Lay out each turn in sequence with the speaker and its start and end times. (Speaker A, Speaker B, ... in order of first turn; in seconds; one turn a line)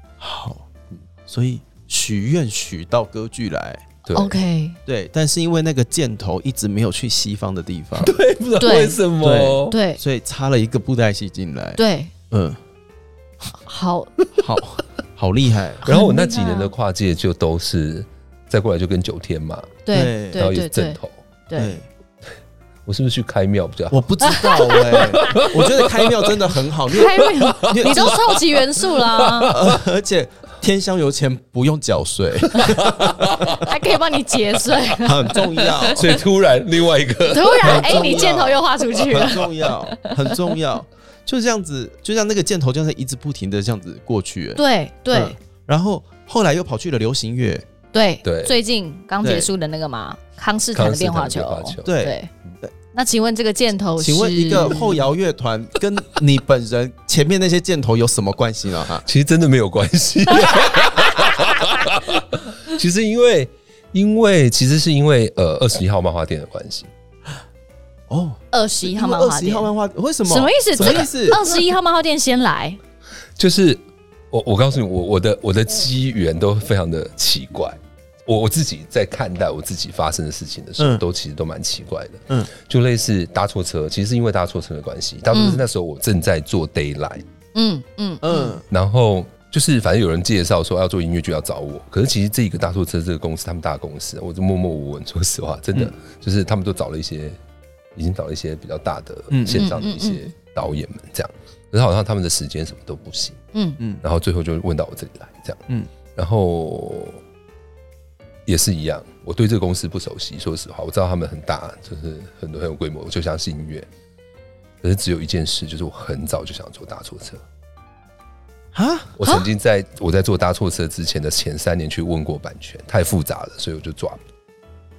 Speaker A: 0.2-0.6
Speaker A: 1.3-4.0
Speaker B: 4.0-4.4
Speaker C: 4.1-4.8
Speaker A: 4.9-8.1
Speaker B: 8.0-9.8
Speaker C: 8.6-9.0
Speaker A: 9.2-11.8
Speaker C: 9.7-10.0
Speaker C: 11.8-12.1
Speaker A: 12.3-12.6
Speaker C: 13.6-14.1
Speaker A: 14.4-15.8
Speaker B: 15.8-19.8
Speaker C: 15.8-16.7
Speaker C: 19.9-21.0
Speaker A: 19.9-20.4
Speaker B: 20.3-21.2
Speaker C: 21.5-21.8
Speaker A: 21.6-21.8
Speaker B: 22.9-26.4
Speaker A: 23.9-28.2
Speaker C: 24.2-25.5
Speaker C: 26.9-29.5
Speaker B: 27.0-29.8
Speaker A: 29.5-33.6
Speaker B: 32.5-33.7
Speaker C: 33.5-35.9
Speaker A: 35.0-36.2
Speaker B: 35.9-38.3
Speaker C: 37.3-40.3
Speaker A: 37.6-44.6
Speaker C: 44.5-45.4
Speaker A: 45.1-47.6
Speaker C: 47.9-52.3
Speaker B: 48.2-48.5
Speaker A: 49.2-49.5
Speaker B: 50.7-51.9
Speaker A: 51.8-52.7
Speaker C: 52.9-54.9
Speaker A: 54.0-59.0
Speaker B: 59.0-66.9
Speaker C: 60.4-61.9
Speaker A: 68.1-71.4
Speaker C: 68.5-69.7
Speaker C: 70.3-72.8
Speaker B: 70.8-71.0
Speaker B: 73.4-87.2
Speaker A: 80.8-81.0
Speaker C: 85.3-85.6
Speaker C: 87.5-88.6
Speaker A: 88.2-88.6
Speaker B: 88.7-97.4
Speaker B: 97.9-103.4
Speaker A: 99.3-99.7
Speaker C: 99.5-100.3
Speaker C: 103.5-103.8
Speaker B: 104.0-105.6
Speaker B: 106.1-107.2
Speaker B: 108.5-113.9
Speaker B: 114.8-117.4
Speaker A: 118.7-119.1
Speaker B: 119.2-124.2